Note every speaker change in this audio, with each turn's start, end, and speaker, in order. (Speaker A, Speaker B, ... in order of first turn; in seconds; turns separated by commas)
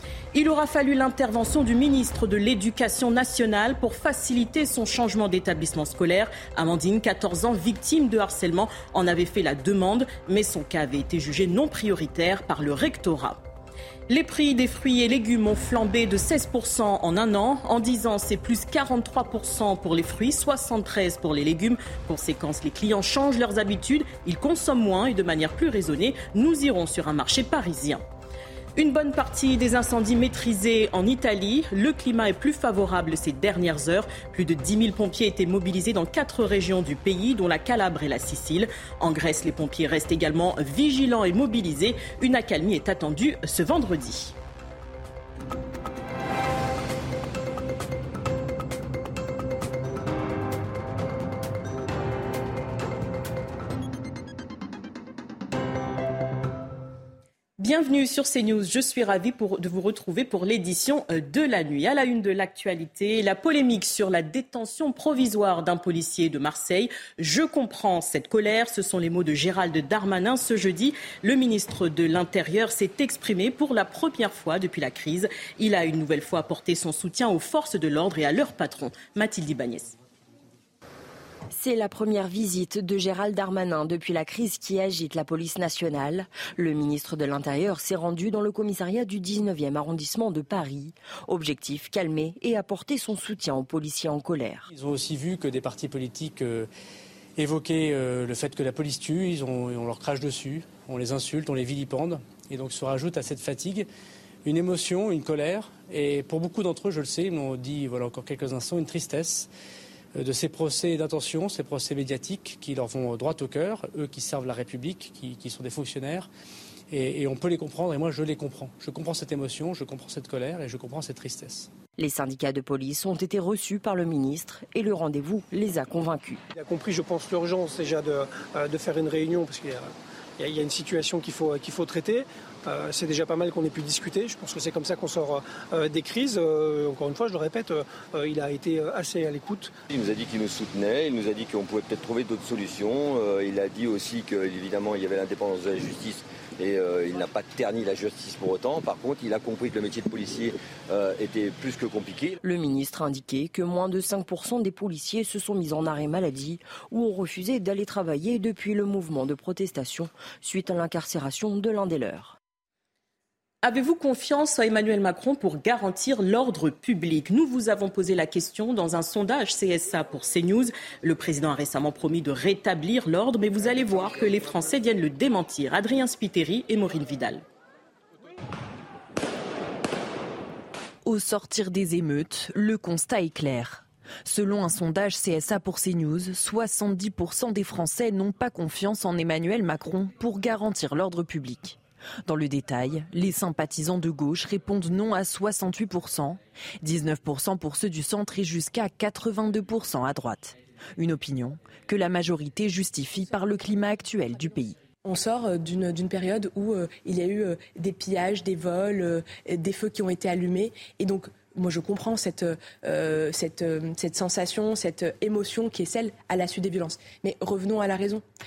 Speaker A: 0.3-13.4, Speaker A: 14.1-28.0, Speaker A: 28.8-44.3, Speaker A: 57.6-80.0, Speaker B: 81.5-94.7, Speaker C: 94.7-96.7, Speaker C: 97.4-103.9, Speaker C: 104.4-109.5, Speaker C: 110.2-116.3, Speaker C: 116.9-121.7, Speaker B: 122.0-126.4, Speaker D: 126.5-139.7, Speaker E: 139.9-152.4, Speaker B: 152.4-162.4, Speaker A: 163.6-177.4, Speaker F: 181.0-204.8, Speaker G: 205.0-218.2